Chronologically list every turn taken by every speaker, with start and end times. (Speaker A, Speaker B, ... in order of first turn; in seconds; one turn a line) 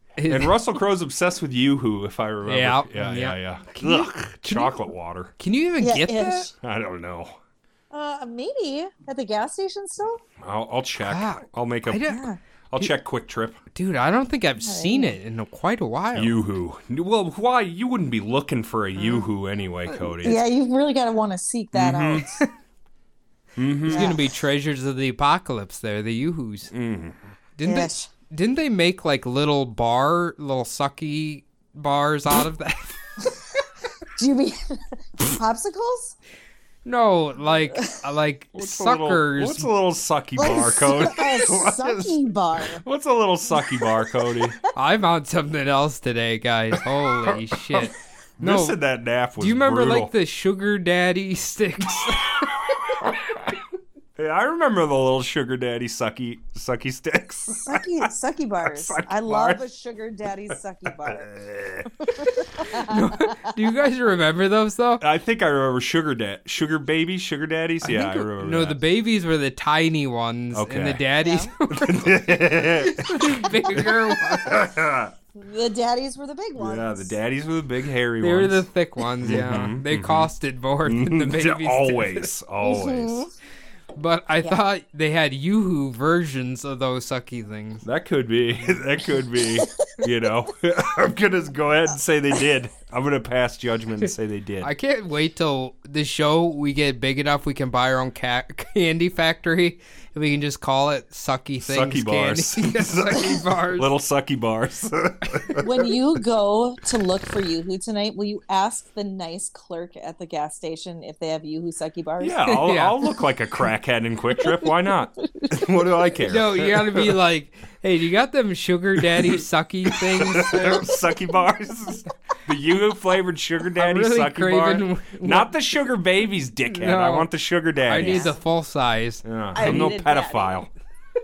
Speaker A: 0.2-0.6
Speaker B: 0.3-5.3
Speaker A: 2.5-4.8
Speaker A: 5.4-6.5
Speaker C: 5.8-6.5
Speaker B: 6.6-7.4
Speaker C: 7.9-10.2
Speaker B: 10.4-12.1
Speaker A: 11.0-12.3
Speaker C: 12.1-12.4
Speaker B: 12.7-13.6
Speaker A: 13.7-16.4
Speaker C: 14.6-15.2
Speaker B: 16.1-20.4
Speaker C: 20.2-22.4
Speaker B: 21.7-22.3
Speaker B: 23.6-24.1
Speaker A: 23.8-26.7
Speaker C: 23.9-24.3
Speaker B: 26.7-27.2
Speaker A: 27.6-33.3
Speaker C: 27.6-28.1
Speaker C: 34.1-36.1
Speaker A: 36.8-39.7
Speaker B: 38.5-44.6
Speaker C: 40.4-42.8
Speaker C: 43.6-44.5
Speaker A: 44.7-48.8
Speaker B: 47.3-50.1
Speaker A: 49.4-52.6
Speaker B: 52.0-53.6
Speaker B: 54.2-58.1
Speaker C: 57.6-61.3
Speaker B: 58.6-59.6
Speaker B: 60.9-62.2
Speaker C: 62.2-63.5
Speaker A: 62.6-65.0
Speaker B: 65.0-68.8
Speaker A: 67.8-74.6
Speaker B: 70.5-71.0
Speaker C: 71.2-71.5
Speaker B: 71.7-75.1
Speaker C: 75.3-77.1
Speaker B: 76.6-78.7
Speaker A: 78.2-82.3
Speaker B: 79.2-80.3
Speaker B: 80.8-83.3
Speaker C: 82.6-83.3
Speaker A: 83.9-87.8
Speaker B: 87.8-94.7
Speaker C: 89.6-90.0
Speaker A: 94.6-103.9
Speaker B: 101.6-105.9
Speaker C: 105.6-112.5
Speaker B: 112.2-117.2
Speaker A: 112.5-113.1
Speaker C: 114.4-115.7
Speaker A: 116.2-120.9
Speaker B: 119.0-128.3
Speaker A: 123.8-125.5
Speaker A: 126.7-127.3
Speaker A: 127.8-129.9
Speaker C: 128.0-128.4
Speaker B: 129.2-130.7
Speaker C: 129.5-130.7